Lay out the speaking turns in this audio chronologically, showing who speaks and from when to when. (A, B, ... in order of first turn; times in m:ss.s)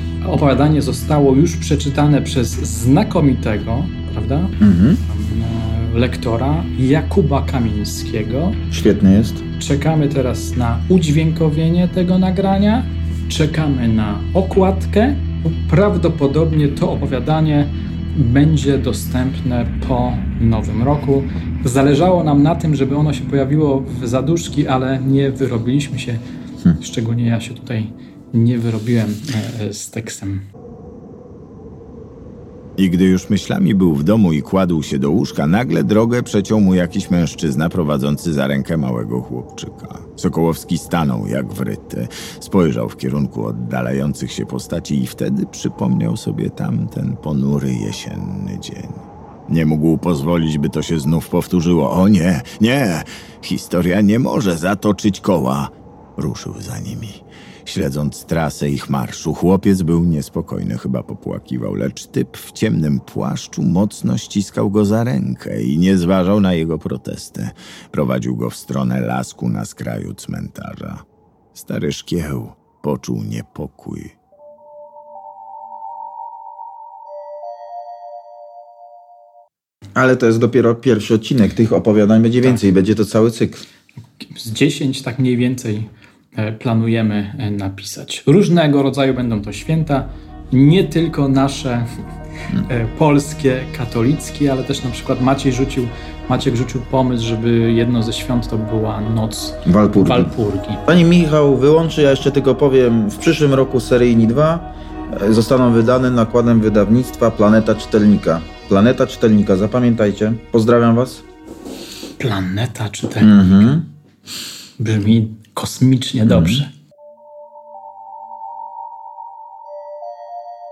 0:00.2-0:08.6 A
0:04.6-0:05.0 B
0:08.7-0:09.4 B
0:09.6-0:26.2 A
0:26.8-0:30.4 A
0:32.8-1:14.1 C
1:19.9-1:23.6 B
1:24.2-1:31.9 A
1:32.6-1:40.8 A
1:39.6-1:40.3 B
1:40.8-1:51.2 B
1:52.2-1:53.7 A
1:53.2-1:53.9 B
1:54.8-1:56.7 A
1:56.3-1:56.6 B